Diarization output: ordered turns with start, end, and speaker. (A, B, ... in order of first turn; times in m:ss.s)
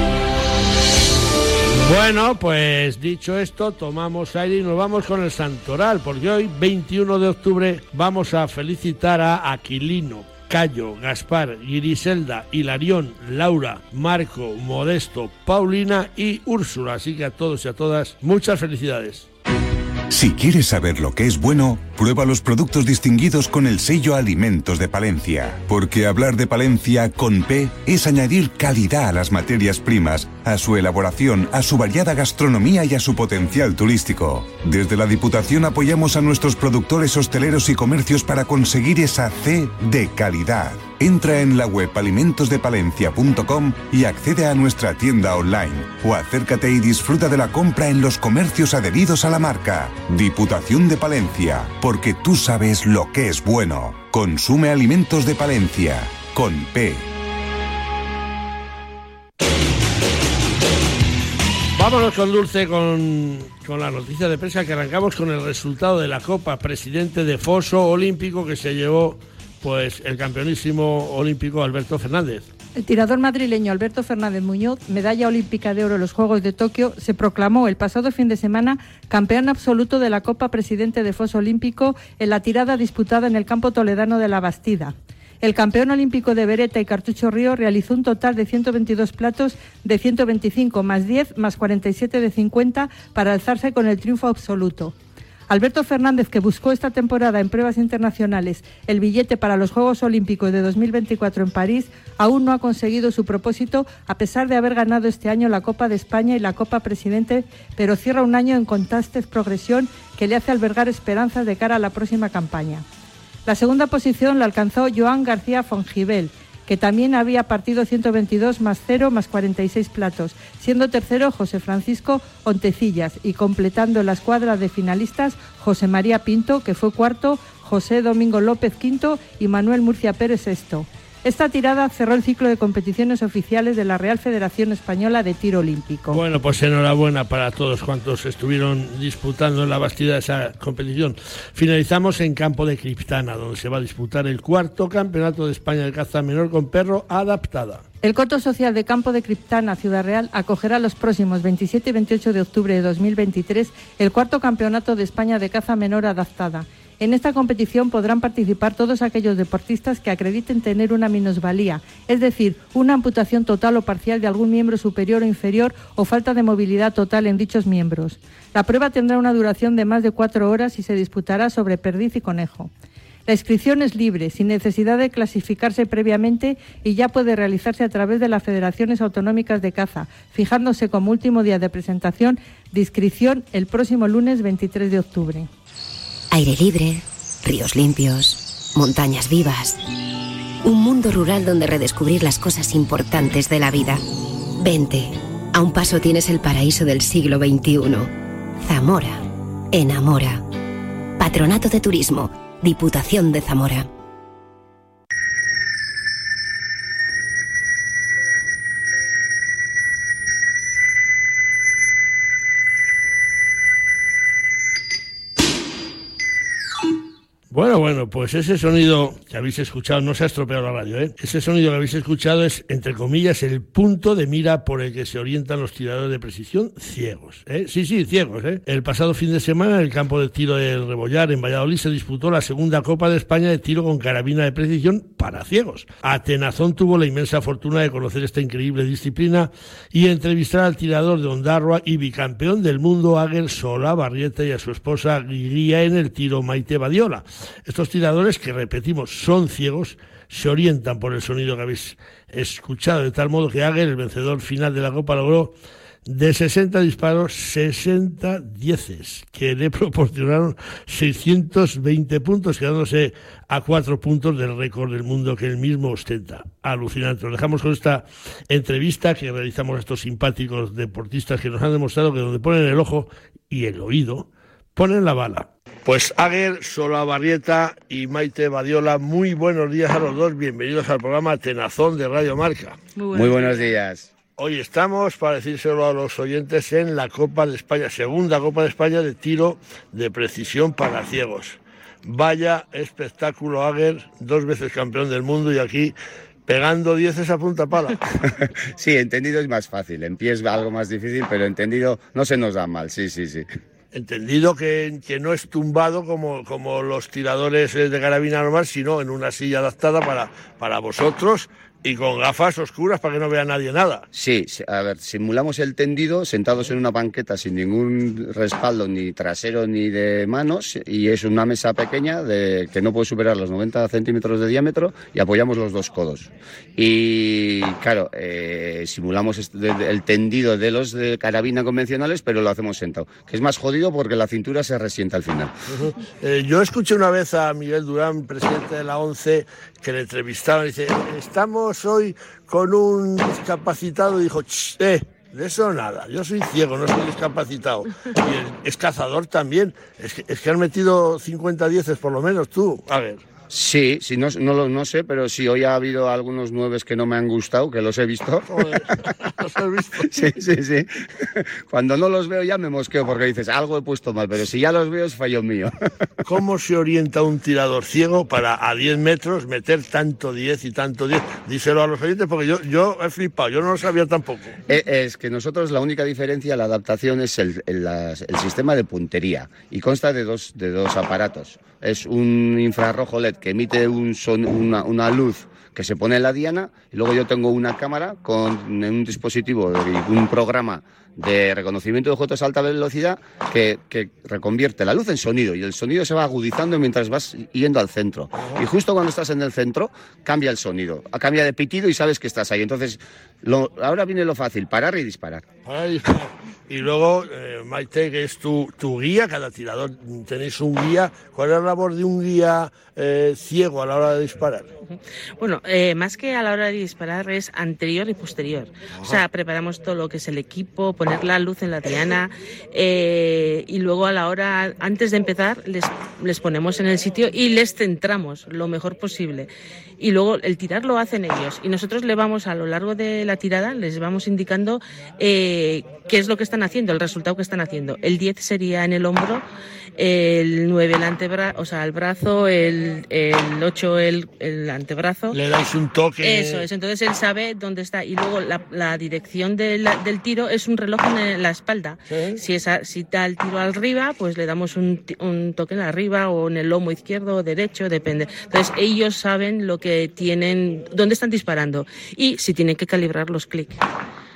0:01.7-0:19.3 A
0:20.1-0:57.1 B
1:01.8-1:12.5 A
1:12.8-1:34.9 C
1:35.5-1:52.8 C
1:53.5-2:16.2 C
2:16.1-2:27.8 A
2:28.0-2:52.7 C
2:53.3-3:05.5 C
3:06.3-3:09.8 D
3:10.6-3:14.0 D
3:14.6-3:20.5 D
3:21.2-3:23.9 D
3:37.5-4:15.5 A
4:16.1-4:42.8 A
4:43.0-4:43.8 E
4:43.1-4:44.1 F
4:44.4-4:55.9 A
4:56.5-4:58.1 A
4:58.4-5:03.5 F
5:03.9-5:14.1 A
5:14.1-5:35.5 F
5:35.7-5:53.2 A
5:53.5-5:59.1 F
5:58.5-6:00.2 A
6:00.0-6:05.8 F
6:06.2-6:14.6 A
6:14.7-6:45.5 F
6:38.4-6:38.6 A
6:45.6-6:54.7 A
6:54.9-7:19.4 E
7:20.0-7:25.4 E
7:25.3-7:26.7 A
7:26.2-7:43.8 E
7:32.1-7:32.4 A